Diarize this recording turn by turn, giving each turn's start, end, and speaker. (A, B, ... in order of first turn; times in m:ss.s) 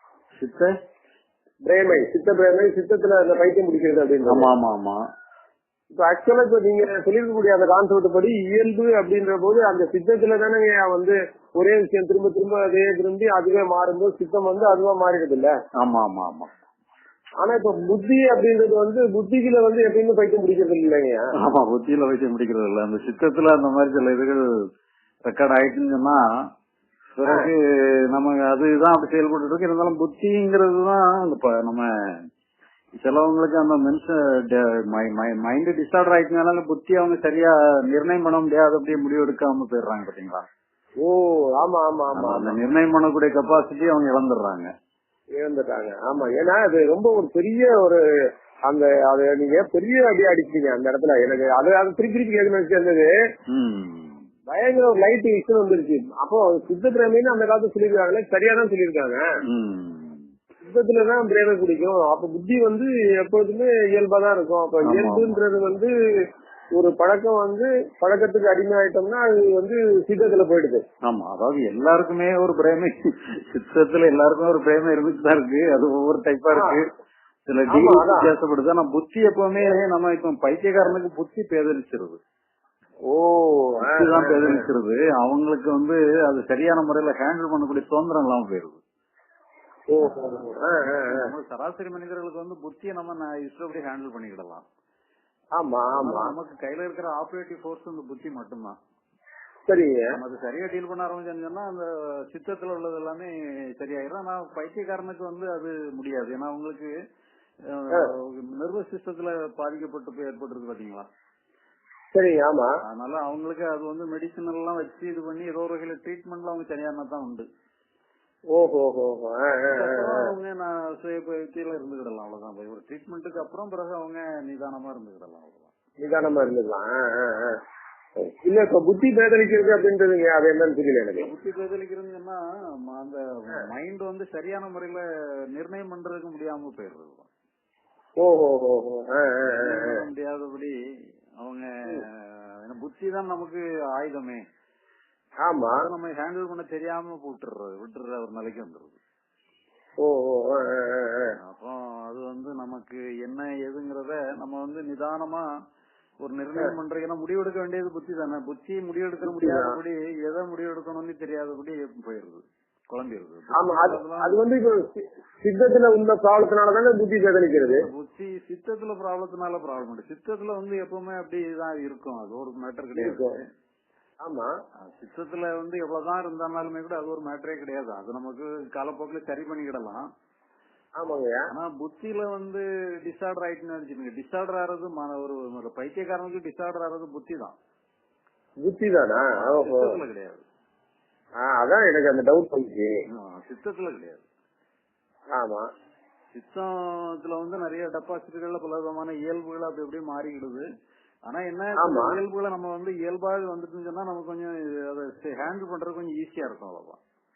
0:00.4-0:00.7 A
0:01.6-0:04.5 B
0:04.3-0:05.0 A
0:05.9-0:15.5 B
0:15.8-0:16.5 A
0:17.4-0:21.3 B
0:21.4-0:24.4 A
0:25.3-0:26.2 A
0:27.2-0:31.9 A
0:33.0-0:40.5 A
0:41.0-0:42.6 B
0:42.1-0:44.7 A
0:45.4-0:48.0 B
0:48.7-0:53.1 B
0:53.5-0:54.2 A
0:54.5-0:59.2 B
0:59.5-1:00.2 A
1:00.6-1:05.9 B
1:04.9-1:05.3 A
1:06.8-1:10.8 B
1:11.0-1:16.8 A
1:16.5-1:16.8 B
1:17.5-1:22.2 A
1:17.7-1:18.3 B
1:23.1-1:24.6 B
1:23.8-1:28.8 A
1:29.9-1:31.3 B
1:30.9-1:34.6 A
1:35.6-1:36.3 B
1:36.0-1:38.8 A
1:39.7-1:40.2 B
1:40.2-1:46.9 A
1:47.7-1:51.1 A
1:52.1-1:52.7 B
1:52.9-1:57.5 A
1:58.5-2:00.3 B
1:59.7-2:05.7 A
2:06.0-2:07.6 B
2:08.3-2:11.3 B
2:11.2-2:17.3 A
2:18.2-2:20.0 B
2:19.6-2:20.7 A
2:21.4-2:24.4 A
2:25.4-2:25.9 B
2:25.8-2:29.0 A
2:30.0-2:31.4 B
2:31.4-2:35.4 A
2:36.2-2:44.4 A
2:39.2-2:39.8 B
2:43.6-2:47.9 B
2:47.7-2:53.4 A
2:53.0-2:53.4 B
2:54.2-2:54.5 B
2:54.8-3:00.1 A
3:01.0-3:01.5 B
3:01.5-3:07.6 A
3:08.6-3:10.0 B
3:09.3-3:10.4 A
3:11.4-3:13.0 B
3:13.2-3:14.3 A
3:15.3-3:15.7 B
3:16.3-3:20.6 A
3:21.3-3:27.0 A
3:21.8-3:22.2 B